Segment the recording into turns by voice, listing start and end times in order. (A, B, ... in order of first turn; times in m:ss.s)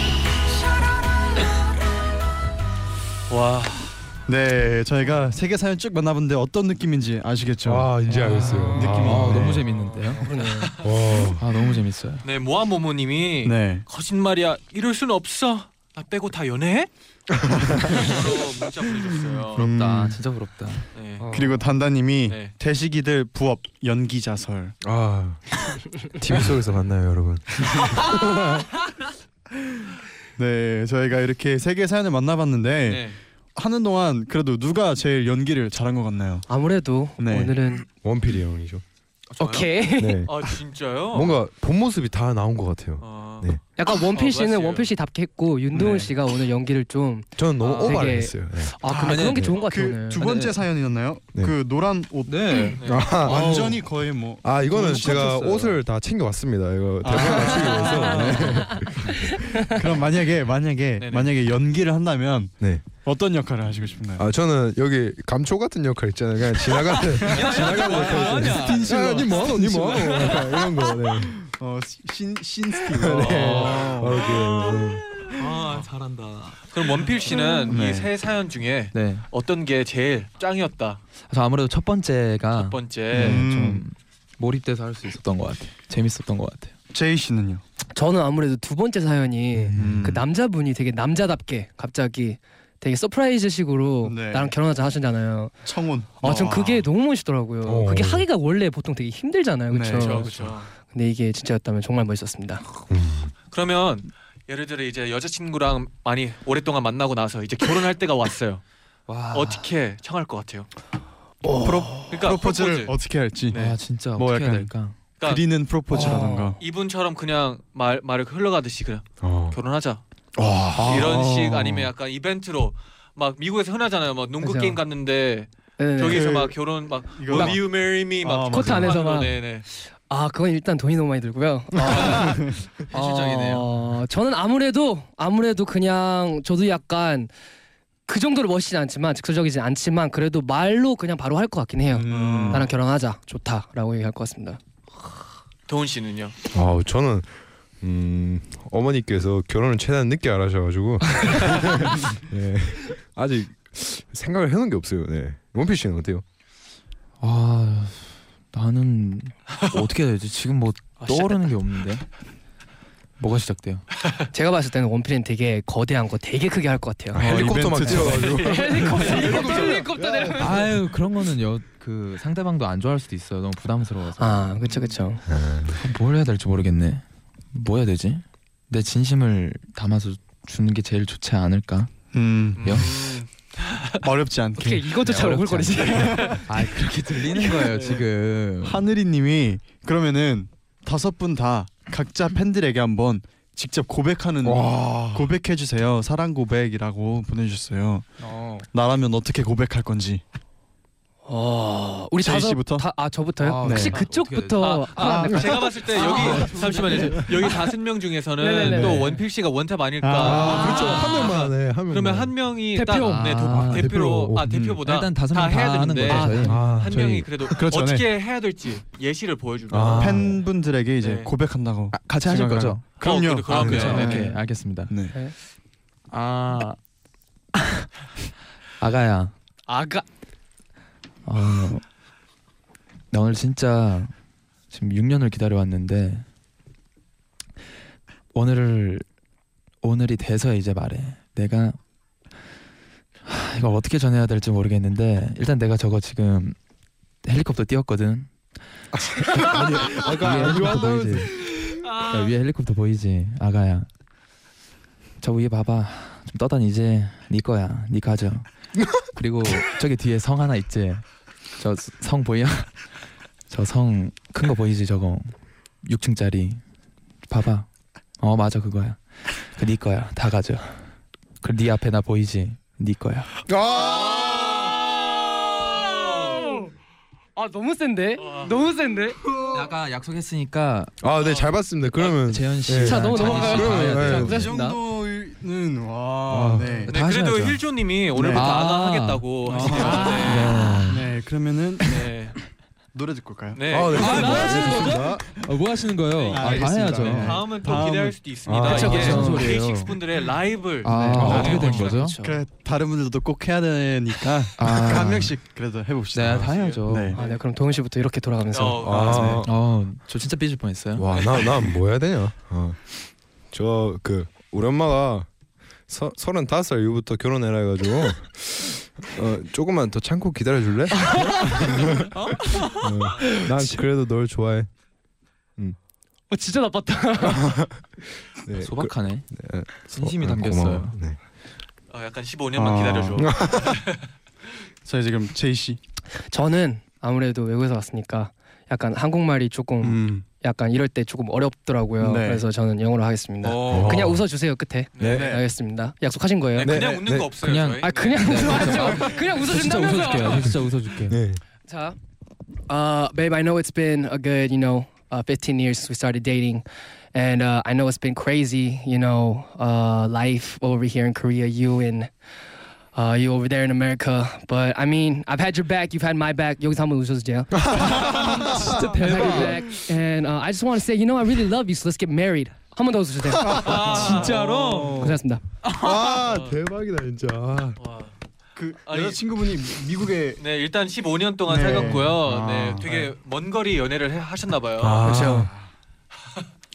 0:03.3-0:03.9 A
0:04.3-0:08.0 B
0:07.6-0:09.6 C
0:08.1-0:09.1 D
0:08.4-0:10.2 E
0:08.5-0:09.6 B
0:09.8-0:10.8 D
0:10.4-0:10.9 A
0:10.8-0:11.4 C
0:11.4-0:12.2 E
0:12.2-0:16.9 A
0:13.4-0:13.8 B
0:17.5-0:17.8 C
0:17.6-0:18.1 B
0:17.8-0:19.6 A
0:19.5-0:20.2 B
0:19.6-0:21.6 E
0:20.9-0:21.2 A
0:21.3-0:24.7 B
0:22.2-0:22.5 A
0:24.8-0:28.7 C
0:30.4-0:36.4 B
0:32.8-0:33.2 A
0:36.5-0:37.9 D
0:37.2-0:37.5 B
0:38.0-0:38.8 C
0:39.4-0:39.7 A
0:39.4-0:40.3 D
0:40.0-0:40.3 C
0:40.2-0:41.4 A
0:41.1-0:43.6 C
0:43.0-0:43.6 A
0:43.8-0:50.6 D
0:44.1-0:44.9 A
0:45.7-0:46.1 B
0:47.4-0:48.7 C
0:47.6-0:48.0 E
0:48.8-0:55.3 B
0:48.9-0:49.4 E
0:49.3-0:49.6 C
0:52.2-0:53.6 E
0:52.7-0:53.1 A
0:52.8-0:59.4 C
0:54.7-0:55.8 E
0:57.0-1:04.3 B
0:57.2-0:58.8 D
0:57.9-0:58.4 E
1:01.0-1:01.3 A
1:04.2-1:11.4 C
1:07.1-1:10.3 B
1:07.3-1:09.2 E
1:07.3-1:08.6 A
1:11.4-1:14.3 B
1:12.9-1:15.0 C
1:13.1-1:14.2 A
1:15.4-1:16.6 E
1:15.6-1:15.9 A
1:16.6-1:21.0 A
1:17.6-1:18.1 B
1:18.9-1:19.2 E
1:21.3-1:26.7 E
1:22.5-1:23.4 A
1:23.1-1:23.8 B
1:26.9-1:27.6 B
1:27.9-1:35.6 D
1:29.6-1:30.1 C
1:29.8-1:30.2 B
1:34.0-1:34.5 B
1:35.6-1:36.8 B
1:36.2-1:42.6 D
1:37.6-1:38.2 C
1:39.7-1:40.6 B
1:39.9-1:40.7 A
1:42.9-1:43.3 C
1:43.5-1:48.6 A
1:49.1-1:49.6 E
1:49.3-1:50.7 A
1:51.4-1:52.1 D
1:51.5-1:56.6 B
1:52.1-1:52.9 A
1:53.5-1:55.0 E
1:55.2-1:55.4 A
1:55.9-1:56.6 D
1:56.0-2:00.0 A
1:59.2-1:59.6 C
2:00.4-2:01.1 C
2:00.7-2:01.9 B
2:00.8-2:09.6 A
2:04.4-2:04.8 D
2:05.8-2:06.3 D
2:06.1-2:06.6 B
2:07.1-2:09.0 B
2:07.3-2:07.6 D
2:08.5-2:09.4 D
2:09.9-2:17.3 D
2:11.8-2:12.5 B
2:12.9-2:13.6 E
2:18.1-2:24.6 D
2:21.9-2:22.7 B
2:22.1-2:22.7 A
2:25.7-2:26.4 A
2:26.5-2:36.2 C
2:37.2-2:42.0 E
2:41.0-2:41.4 A
2:43.2-2:43.8 E
2:44.3-2:47.2 D
2:47.1-2:50.6 C
2:47.1-2:49.5 B
2:47.9-2:50.8 D
2:50.4-2:54.5 E
2:54.2-2:55.2 D
2:55.3-2:55.8 C
2:55.7-3:01.9 E
3:02.1-3:03.0 B
3:02.6-3:04.0 A
3:02.6-3:02.9 E
3:04.0-3:04.9 B
3:04.6-3:06.5 D
3:05.0-3:08.8 E
3:05.8-3:06.3 B
3:07.7-3:08.0 A
3:08.6-3:18.1 B
3:14.4-3:15.4 C
3:18.2-3:18.7 E
3:18.7-3:20.2 B
3:21.2-3:27.2 D
3:22.2-3:22.9 B
3:23.4-3:25.3 E
3:23.6-3:24.0 B
3:24.6-3:40.3 A
3:25.0-3:25.5 B
3:25.9-3:27.3 E
3:28.4-3:29.2 D
3:28.6-3:29.0 B
3:30.0-3:31.1 B
3:30.2-3:32.3 C
3:30.4-3:31.2 D
3:32.8-3:33.4 D
3:32.8-3:33.9 E
3:33.6-3:34.5 C
3:34.4-3:34.8 B
3:34.8-3:37.3 E
3:36.0-3:36.6 D
3:36.4-3:37.0 C
3:37.5-3:38.1 B
3:39.7-3:40.4 C
3:40.0-3:44.3 B
3:41.0-3:41.3 A
3:41.9-3:42.8 E
3:43.0-3:44.3 A
3:43.5-3:44.9 E
3:43.9-3:44.4 D
3:44.9-3:45.1 B
3:46.1-3:46.8 E
3:47.5-3:47.8 E
3:48.8-3:49.3 E
3:49.7-3:50.0 D
3:51.2-3:51.8 E
3:53.1-3:54.1 E
3:54.7-3:56.2 E
3:58.3-3:59.0 E
3:59.8-4:01.8 E
4:03.2-4:06.6 E
4:07.2-4:08.3 E
4:09.0-4:11.8 C
4:09.2-4:13.9 E
4:11.8-4:12.3 A
4:15.2-4:22.8 E
4:23.5-4:26.6 E
4:27.3-4:27.7 E
4:28.2-4:30.8 E
4:31.4-4:33.3 E
4:33.4-4:34.7 C
4:34.2-4:34.5 A
4:35.5-4:36.7 D
4:37.4-4:39.2 D
4:38.2-4:38.5 A
4:39.5-4:40.9 E
4:41.0-4:44.5 C
4:41.2-4:42.1 A
4:42.2-4:44.8 E
4:42.7-4:44.8 D
4:43.7-4:46.9 B
4:46.3-4:46.9 C
4:46.9-4:47.6 E
4:46.9-4:50.8 A
4:48.1-4:48.5 B
4:48.3-4:49.2 E
4:49.4-4:52.1 B
4:49.7-4:50.8 D
4:49.8-4:51.0 E
4:51.8-4:52.4 A
4:52.9-4:54.1 B
4:53.5-4:54.5 A
4:53.7-4:55.3 C
4:54.0-4:57.4 E
4:56.2-5:02.0 A
4:56.3-4:58.2 B
4:56.6-4:57.0 C
4:58.4-4:59.2 C
4:58.6-4:59.6 D
4:58.7-4:59.9 E
4:58.8-4:59.6 B
5:00.8-5:02.1 E
5:00.9-5:07.2 B
5:01.0-5:02.4 D
5:01.1-5:01.5 C
5:04.6-5:05.4 E
5:06.1-5:07.1 E
5:06.3-5:07.4 A
5:07.1-5:09.0 D
5:08.5-5:09.4 A
5:08.8-5:09.5 C
5:08.9-5:09.4 B
5:09.4-5:11.1 E
5:11.0-5:15.3 C
5:11.1-5:11.4 A
5:15.9-5:24.7 C
5:21.0-5:21.7 D
5:22.2-5:23.5 D
5:26.3-5:27.7 D
5:27.2-5:27.6 C
5:28.3-5:31.2 C
5:28.6-5:29.3 E
5:29.9-5:31.0 E
5:31.9-5:34.1 A
5:32.5-5:33.3 B
5:33.2-5:33.8 C
5:34.8-5:35.8 B
5:36.3-5:46.8 D
5:39.8-5:40.3 B
5:42.0-5:42.4 B
5:43.4-5:44.1 B
5:43.6-5:44.2 C
5:44.9-5:45.3 A
5:45.0-5:45.3 C
5:45.0-5:45.4 B
5:46.5-5:49.0 A
5:46.6-5:47.3 C
5:47.4-5:51.2 E
5:47.8-5:50.6 D
5:51.1-5:51.4 C
5:51.7-5:52.0 D
5:52.7-6:02.1 D
6:02.9-6:15.4 D
6:07.6-6:08.8 C
6:08.0-6:09.6 E
6:13.4-6:15.0 A
6:13.5-6:15.2 B
6:14.3-6:14.9 E
6:15.7-6:17.8 C
6:16.0-6:16.6 A
6:17.8-6:18.1 A
6:18.6-6:20.4 B
6:18.8-6:19.2 A
6:20.4-6:25.0 A
6:21.5-6:23.1 B
6:24.8-6:25.5 C
6:25.0-6:25.5 D
6:25.0-6:25.7 B